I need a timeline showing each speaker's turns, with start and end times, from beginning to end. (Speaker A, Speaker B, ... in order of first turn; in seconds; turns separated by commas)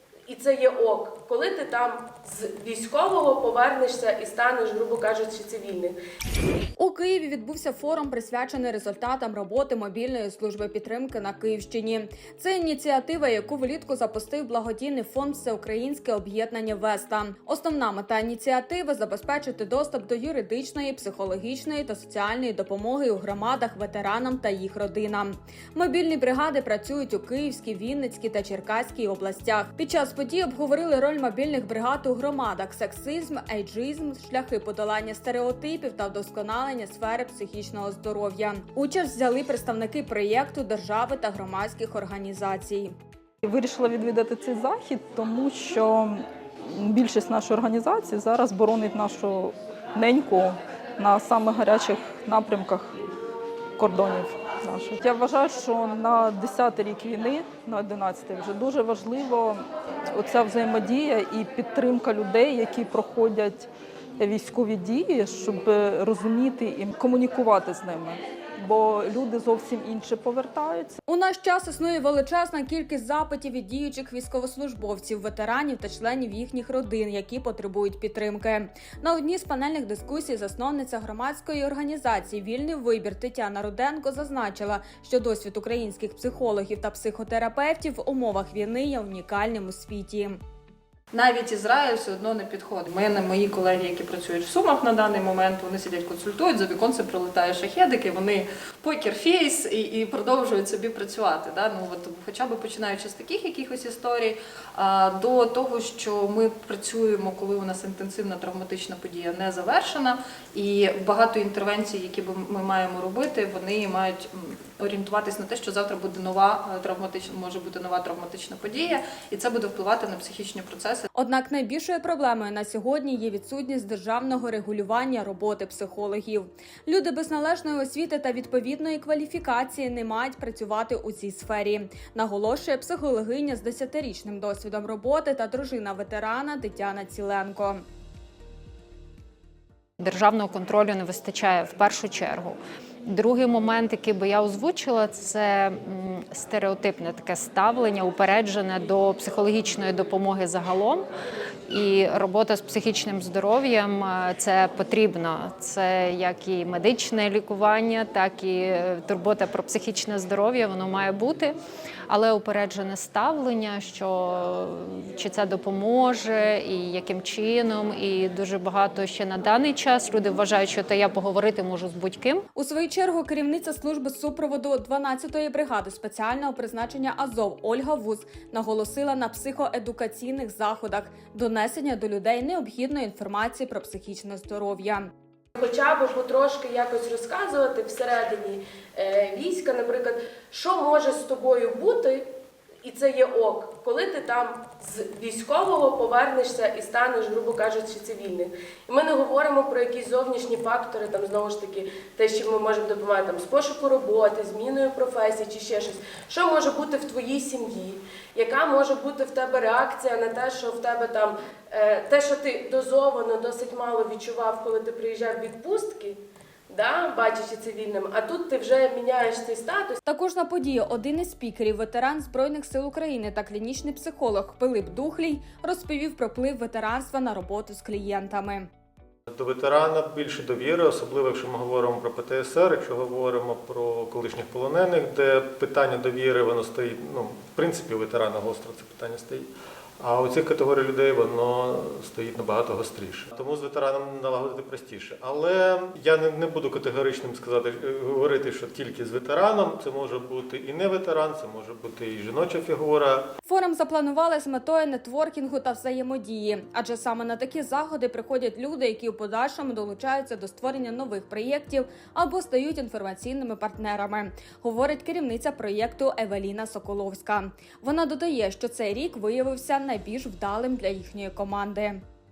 Speaker A: 0.3-6.0, Speaker B: 6.8-42.9, Speaker C: 43.4-53.0, Speaker C: 53.8-71.0, Speaker B: 71.1-90.4, Speaker D: 91.1-121.1, Speaker B: 121.1-137.8, Speaker E: 140.0-151.1, Speaker E: 151.7-161.6, Speaker E: 162.1-172.5, Speaker B: 172.6-185.1, Speaker A: 185.6-192.2, Speaker A: 192.8-216.2, Speaker A: 216.7-220.0, Speaker B: 220.1-228.7, Speaker F: 229.3-239.5, Speaker F: 240.0-253.3, Speaker B: 253.4-272.0